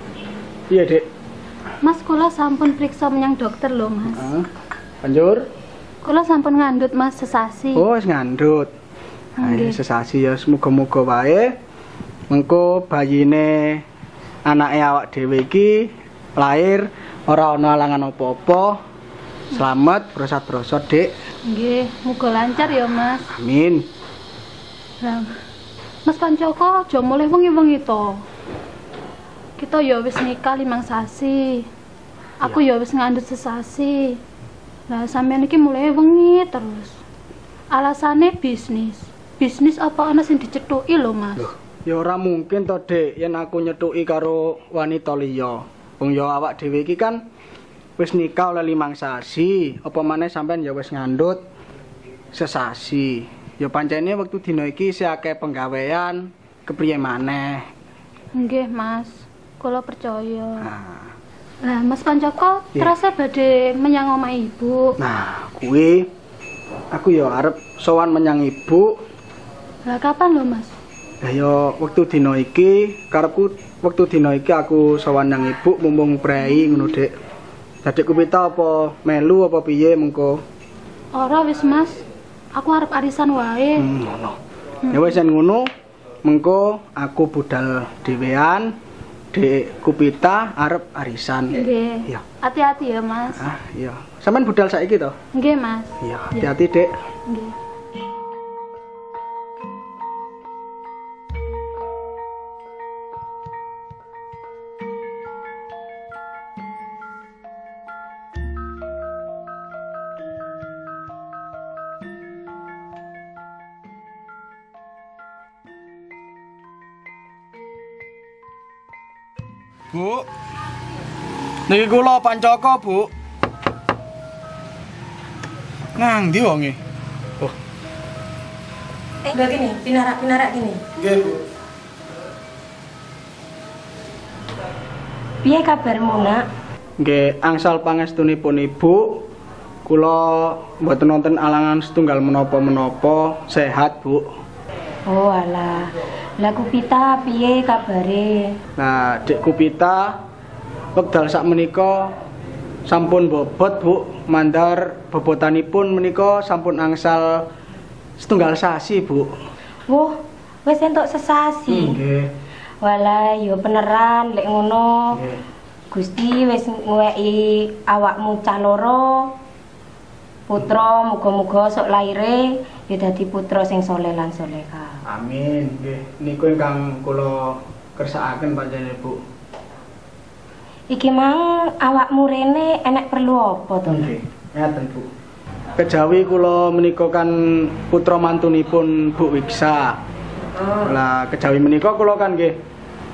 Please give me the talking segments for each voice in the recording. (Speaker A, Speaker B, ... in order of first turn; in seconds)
Speaker A: 0.7-1.1, 4.1-4.5, 5.0-5.5, 7.7-8.7, 9.4-11.5, 12.3-13.8, 14.4-18.8, 19.5-21.1, 23.3-23.9, 41.4-47.2, 48.0-51.4, 52.3-57.7, 60.6-61.1, 65.0-66.1, 66.9-68.9, 71.2-77.1, 77.8-80.4, 83.8-84.4, 84.9-85.7, 86.2-88.7, 89.3-92.2, 93.3-95.2, 96.0-96.9, 119.9-120.2, 121.7-123.1, 126.0-126.8, 131.0-131.4, 137.0-139.2, 139.8-144.3, 148.8-150.2, 150.9-152.1, 152.9-157.5, 158.2-159.3, 161.7-162.3, 165.1-165.4, 175.1-179.2, 183.9-185.1, 185.8-190.0, 190.8-192.6
Speaker B: 1.8-4.3, 6.0-7.8, 9.4-9.8, 21.5-23.3, 25.0-25.3, 26.0-28.2, 29.6-31.7, 32.4-34.2, 34.9-36.9, 37.7-41.5, 58.3-60.7, 61.6-65.0, 69.8-70.7, 81.1-82.0, 82.5-83.8, 91.5-93.4, 95.3-96.5, 97.3-97.5
Speaker C: 129.3-130.8, 135.4-136.4, 145.1-145.9, 146.4-148.5, 159.9-162.0, 162.8-165.2, 165.9-169.3, 170.5-175.0, 180.9-184.1, 190.4-191.0